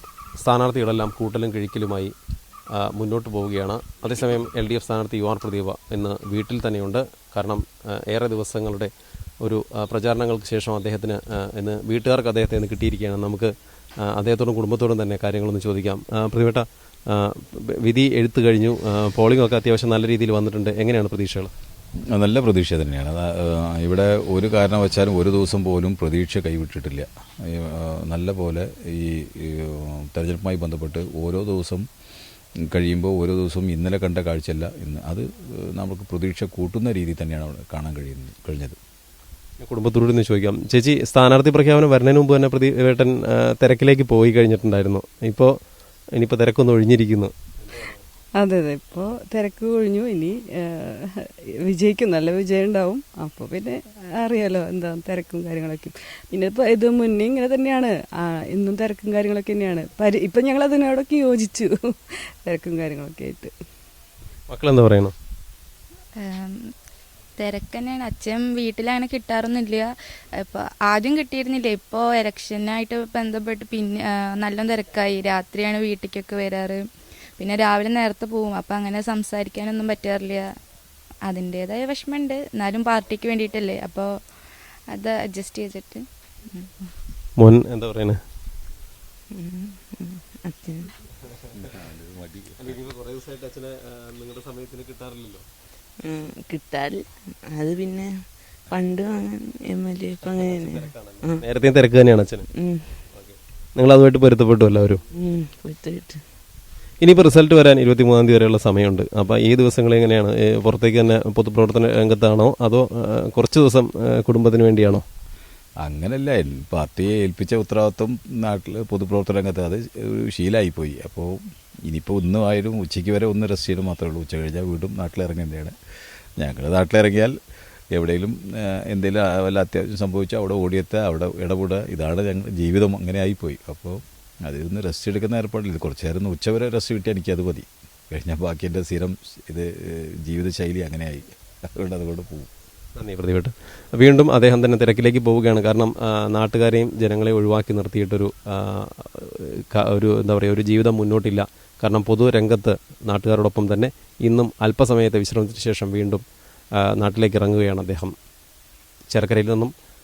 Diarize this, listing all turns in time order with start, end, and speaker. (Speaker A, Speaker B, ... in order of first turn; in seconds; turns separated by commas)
Speaker A: 0.4-2.1, Speaker A: 2.8-13.5, Speaker A: 14.0-21.5, Speaker B: 22.1-31.8, Speaker B: 32.7-38.8, Speaker A: 39.6-45.5, Speaker A: 46.1-48.0, Speaker C: 48.4-63.5, Speaker A: 64.5-65.1, Speaker D: 66.2-66.6, Speaker D: 67.4-69.9, Speaker D: 70.4-76.8, Speaker D: 77.4-80.5, Speaker D: 81.2-84.1, Speaker D: 84.9-86.9, Speaker A: 87.4-88.2, Speaker E: 89.3-90.9, Speaker B: 91.5-92.8, Speaker A: 92.6-95.4, Speaker E: 96.0-98.1, Speaker E: 98.7-101.4, Speaker A: 100.2-102.5, Speaker E: 102.6-103.0, Speaker A: 103.1-105.0, Speaker E: 105.1-106.2, Speaker A: 107.0-115.0, Speaker B: 115.8-125.7, Speaker B: 126.4-127.3, Speaker B: 127.9-142.5, Speaker A: 142.9-156.2, Speaker A: 156.8-158.1, Speaker A: 159.1-159.7